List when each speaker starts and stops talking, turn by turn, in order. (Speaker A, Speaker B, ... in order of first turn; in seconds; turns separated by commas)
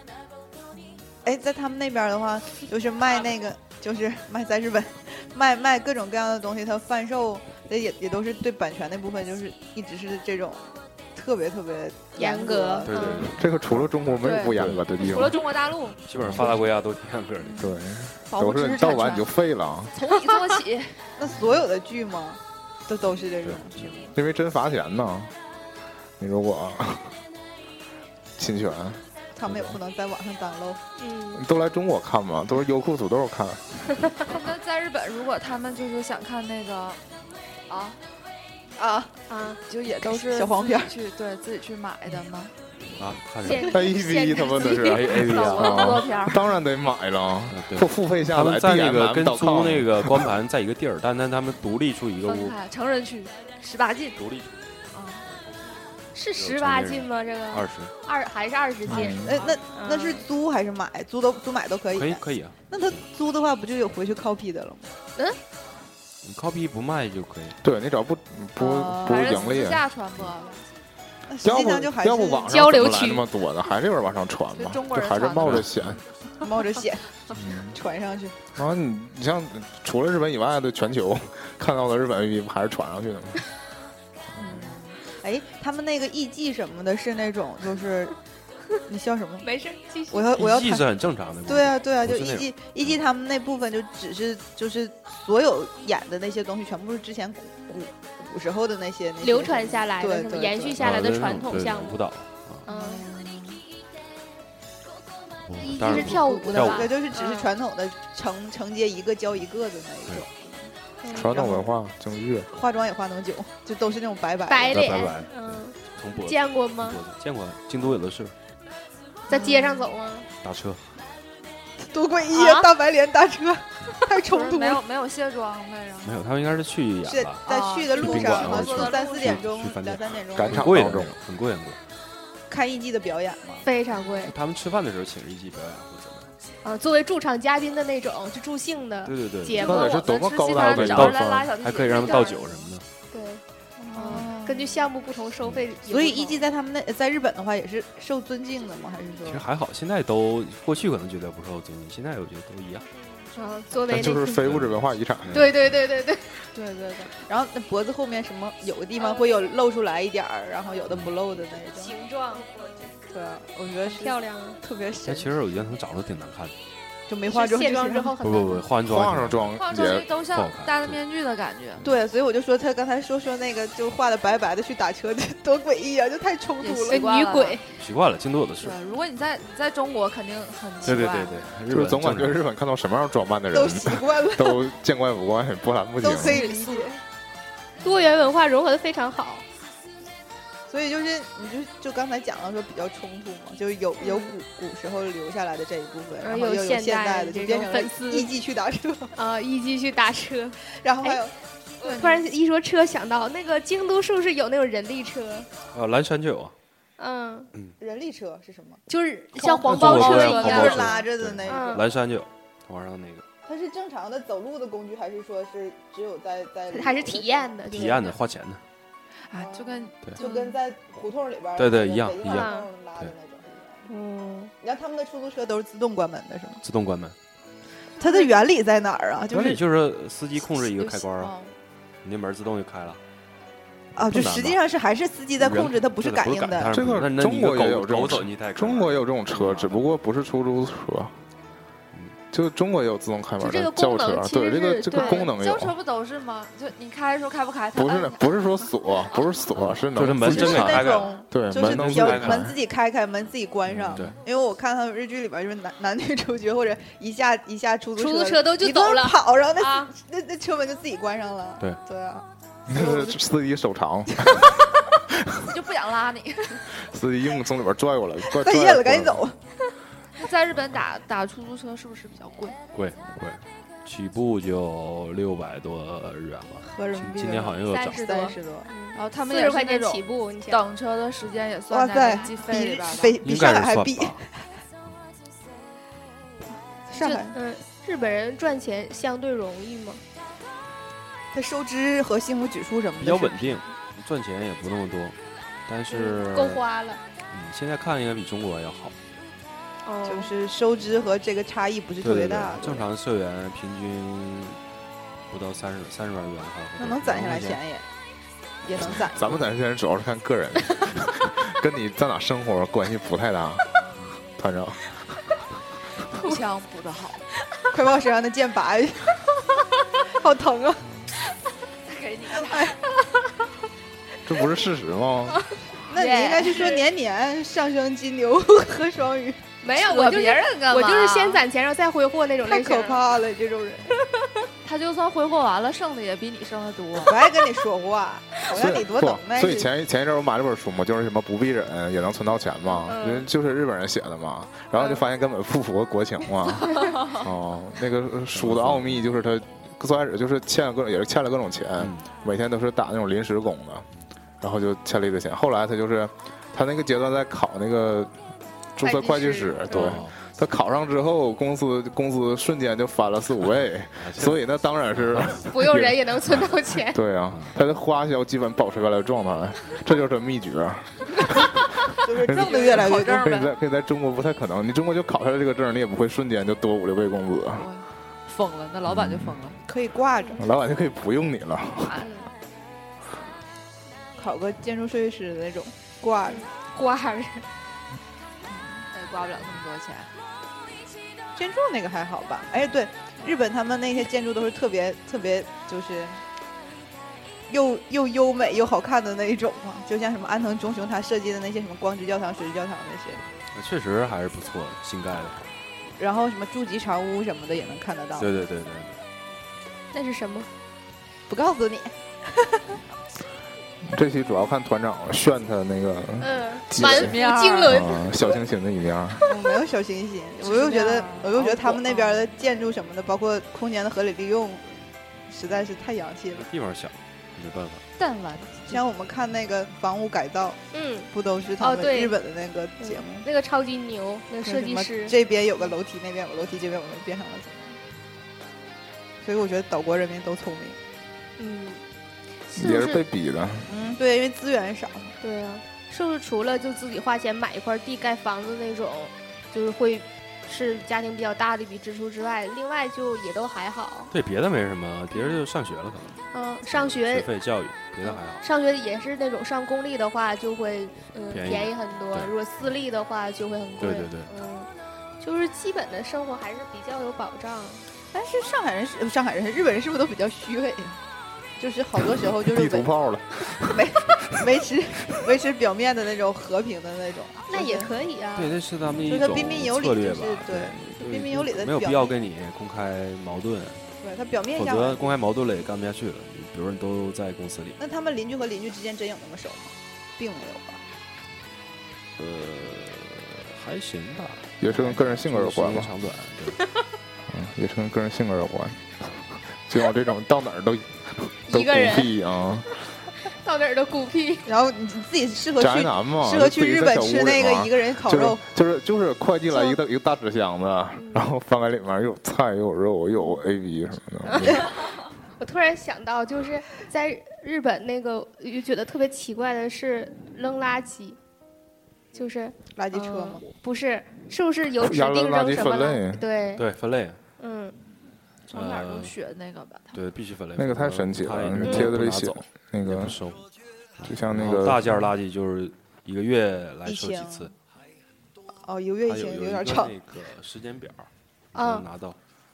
Speaker A: 1.1-13.3, Speaker B: 12.2-13.4, Speaker C: 12.9-14.9, Speaker D: 13.3-15.5, Speaker E: 14.2-16.7, Speaker B: 15.1-16.0, Speaker C: 16.1-17.7, Speaker D: 16.2-16.6, Speaker E: 17.5-19.3, Speaker D: 17.6-19.9, Speaker E: 19.9-21.1, Speaker A: 21.2-24.1, Speaker C: 23.4-23.9, Speaker D: 24.1-25.3, Speaker D: 26.2-27.2, Speaker D: 28.4-29.8, Speaker A: 29.4-30.8, Speaker B: 31.0-31.4, Speaker D: 31.3-33.9, Speaker B: 34.0-34.3, Speaker E: 34.3-37.0, Speaker E: 37.7-38.0, Speaker A: 38.8-39.1, Speaker B: 39.3-39.6, Speaker E: 39.7-42.5, Speaker A: 40.0-41.0, Speaker C: 43.0-43.7, Speaker B: 43.4-45.6, Speaker D: 43.6-50.3, Speaker C: 44.6-46.1, Speaker E: 45.1-46.5, Speaker C: 47.5-52.6, Speaker E: 52.2-54.2, Speaker C: 54.1-54.7, Speaker E: 54.9-55.3, Speaker B: 56.1-60.2, Speaker C: 56.4-58.0, Speaker D: 58.9-59.4, Speaker A: 59.2-64.9, Speaker C: 61.9-63.0, Speaker C: 66.2-67.6, Speaker D: 67.6-69.9, Speaker A: 68.6-69.4, Speaker E: 69.0-70.7, Speaker A: 71.3-72.6, Speaker D: 71.4-76.0, Speaker B: 72.5-73.3, Speaker E: 74.5-75.7, Speaker C: 75.4-76.0, Speaker A: 76.4-78.4, Speaker D: 77.3-77.8, Speaker D: 78.6-83.4, Speaker D: 84.3-84.7, Speaker A: 84.4-88.2, Speaker A: 88.8-89.5, Speaker B: 89.4-90.3, Speaker A: 90.1-90.9, Speaker C: 90.3-92.5, Speaker A: 91.5-100.8, Speaker B: 99.2-102.0, Speaker C: 100.8-102.7, Speaker B: 102.7-103.1, Speaker A: 102.7-103.6, Speaker C: 105.5-106.9, Speaker B: 105.6-107.5, Speaker E: 105.6-106.8, Speaker A: 106.1-110.7, Speaker B: 111.0-111.5, Speaker D: 111.1-112.5, Speaker A: 111.3-111.7, Speaker A: 112.5-115.1, Speaker B: 114.5-117.0, Speaker C: 114.7-118.3, Speaker B: 119.3-120.3, Speaker A: 119.3-119.6, Speaker E: 119.3-119.9, Speaker C: 120.4-120.9, Speaker A: 121.8-124.8, Speaker B: 122.3-122.7, Speaker E: 124.3-126.2, Speaker C: 126.0-127.4, Speaker A: 127.0-130.7, Speaker E: 127.5-129.5, Speaker C: 128.0-131.8, Speaker D: 130.3-131.2, Speaker A: 132.5-133.7, Speaker B: 133.6-134.4, Speaker C: 134.2-136.3, Speaker B: 136.6-140.9, Speaker C: 139.1-139.8, Speaker E: 139.6-142.6, Speaker D: 139.6-141.5, Speaker C: 140.5-142.9, Speaker B: 143.1-146.5, Speaker A: 143.9-144.7, Speaker E: 144.0-144.3, Speaker A: 145.9-149.4, Speaker C: 149.2-152.9, Speaker B: 153.0-154.5, Speaker D: 153.9-155.4, Speaker C: 153.9-155.7, Speaker B: 155.3-156.5, Speaker E: 156.6-157.1, Speaker A: 157.1-162.0, Speaker B: 159.0-159.6, Speaker B: 161.7-162.9, Speaker A: 163.1-165.4, Speaker B: 163.9-164.6, Speaker C: 165.1-166.6, Speaker A: 167.1-168.2, Speaker B: 167.3-168.7, Speaker C: 168.2-169.6, Speaker D: 168.9-170.2, Speaker E: 169.6-171.9, Speaker C: 170.2-171.0, Speaker A: 171.8-177.1, Speaker E: 176.6-177.6, Speaker B: 176.9-177.7, Speaker C: 177.8-178.8, Speaker E: 178.6-181.4, Speaker C: 180.8-182.4, Speaker D: 181.7-186.4, Speaker A: 183.5-184.7, Speaker A: 186.0-187.0, Speaker E: 186.2-187.0, Speaker B: 187.8-189.4, Speaker A: 190.7-199.2, Speaker B: 194.0-194.3, Speaker B: 196.2-198.4, Speaker B: 199.1-201.2, Speaker A: 200.6-201.3, Speaker E: 201.8-202.3, Speaker B: 201.8-205.5, Speaker C: 205.7-206.5, Speaker B: 207.0-207.5, Speaker A: 207.8-208.8, Speaker E: 208.9-211.1, Speaker B: 209.3-210.9, Speaker A: 209.5-211.9, Speaker C: 209.7-213.3, Speaker B: 211.4-211.8, Speaker A: 213.5-217.5, Speaker B: 216.7-218.2, Speaker C: 217.7-218.6, Speaker E: 219.2-220.0, Speaker A: 219.4-223.9, Speaker B: 220.2-220.6, Speaker C: 221.6-223.1, Speaker B: 222.2-222.7, Speaker B: 223.9-224.5, Speaker A: 224.6-226.6, Speaker C: 226.6-227.2, Speaker A: 228.0-229.6, Speaker C: 229.3-231.3, Speaker E: 230.6-231.5, Speaker C: 232.0-233.0, Speaker A: 233.9-236.7, Speaker C: 234.0-234.6, Speaker C: 235.4-239.8, Speaker D: 236.7-241.2, Speaker D: 242.3-245.8, Speaker B: 243.4-245.3, Speaker E: 244.9-249.4, Speaker D: 247.8-252.6, Speaker C: 249.5-252.5, Speaker A: 250.2-262.3, Speaker B: 258.0-259.9, Speaker D: 262.7-264.5, Speaker D: 265.1-265.4, Speaker E: 265.4-266.7, Speaker D: 266.7-269.2, Speaker A: 268.3-269.4, Speaker E: 270.2-272.6, Speaker C: 272.7-278.0, Speaker A: 276.6-278.7, Speaker B: 277.6-280.7, Speaker E: 278.9-283.2, Speaker A: 281.7-284.6, Speaker C: 283.2-284.2, Speaker A: 286.9-287.4, Speaker B: 286.9-290.0, Speaker A: 291.3-293.6, Speaker C: 293.0-296.6, Speaker B: 295.9-297.0, Speaker C: 297.3-299.0, Speaker B: 299.9-300.3, Speaker A: 300.1-302.9, Speaker C: 302.0-304.6, Speaker C: 305.3-307.6, Speaker A: 306.8-307.9, Speaker A: 308.6-309.5, Speaker D: 308.9-313.7, Speaker D: 314.4-315.0, Speaker E: 316.1-317.3, Speaker B: 316.1-316.4, Speaker A: 317.7-319.2, Speaker A: 320.2-320.8, Speaker E: 321.9-322.8, Speaker D: 324.3-325.4, Speaker A: 325.9-329.4, Speaker B: 326.1-326.7, Speaker B: 329.6-333.1, Speaker E: 329.6-331.4, Speaker A: 332.4-334.0, Speaker B: 334.0-334.5, Speaker E: 334.6-337.2, Speaker A: 337.0-339.7, Speaker D: 338.5-353.9, Speaker B: 342.8-343.3, Speaker C: 348.3-349.1, Speaker C: 351.8-352.1, Speaker D: 354.4-358.2, Speaker D: 358.8-366.0, Speaker B: 358.8-360.0, Speaker C: 359.7-360.2, Speaker C: 364.0-365.8, Speaker B: 365.5-367.0, Speaker D: 366.9-371.6, Speaker C: 367.3-367.6, Speaker A: 372.0-373.4, Speaker E: 372.2-373.5, Speaker D: 372.2-377.7, Speaker E: 377.6-379.6, Speaker D: 378.9-379.4, Speaker A: 379.6-380.5, Speaker D: 380.4-382.0, Speaker E: 381.9-382.1, Speaker B: 382.0-382.3, Speaker A: 384.2-386.5, Speaker B: 386.2-387.5, Speaker A: 388.5-388.9, Speaker E: 388.9-390.1, Speaker A: 391.4-396.2, Speaker A: 397.5-403.2, Speaker C: 403.5-405.5, Speaker A: 406.0-408.3, Speaker C: 408.2-409.0, Speaker B: 409.9-410.5, Speaker A: 411.3-412.8, Speaker D: 413.8-419.2, Speaker B: 416.2-418.1, Speaker E: 416.7-418.4, Speaker A: 419.3-424.8, Speaker E: 420.4-422.3, Speaker A: 425.3-426.5, Speaker C: 426.5-427.8, Speaker E: 428.0-428.8, Speaker A: 428.7-433.3, Speaker B: 430.7-432.2, Speaker B: 432.8-435.2, Speaker A: 434.4-437.8, Speaker A: 439.2-440.8, Speaker B: 441.4-441.8, Speaker B: 442.5-443.0, Speaker D: 442.5-443.7, Speaker A: 443.7-445.2, Speaker B: 445.2-454.1, Speaker C: 454.1-458.4, Speaker B: 455.1-455.4, Speaker B: 456.3-457.3, Speaker B: 458.0-467.9, Speaker C: 461.3-462.3, Speaker C: 463.8-464.3, Speaker A: 468.1-471.0, Speaker A: 471.6-472.9, Speaker D: 472.4-474.2, Speaker A: 473.7-477.9, Speaker B: 477.5-478.6, Speaker C: 478.4-483.8, Speaker A: 479.1-482.2, Speaker A: 484.0-485.1, Speaker C: 484.6-487.8, Speaker A: 487.8-490.8, Speaker C: 492.2-496.6, Speaker D: 494.6-495.9, Speaker D: 497.3-502.8, Speaker B: 501.5-502.1, Speaker B: 503.2-504.5, Speaker A: 504.5-508.4, Speaker D: 505.6-514.8, Speaker B: 509.5-509.8, Speaker B: 511.0-511.3, Speaker B: 514.3-521.2, Speaker B: 522.1-526.7, Speaker A: 522.8-523.5, Speaker D: 524.8-526.2, Speaker C: 526.6-527.2, Speaker B: 527.4-527.8, Speaker E: 528.5-530.0, Speaker C: 528.5-529.1, Speaker C: 529.9-533.4, Speaker D: 530.6-533.2, Speaker B: 531.6-531.9, Speaker C: 534.0-537.5, Speaker D: 534.0-535.1, Speaker A: 536.9-537.5, Speaker A: 538.6-539.9, Speaker C: 539.0-542.2, Speaker B: 541.5-541.9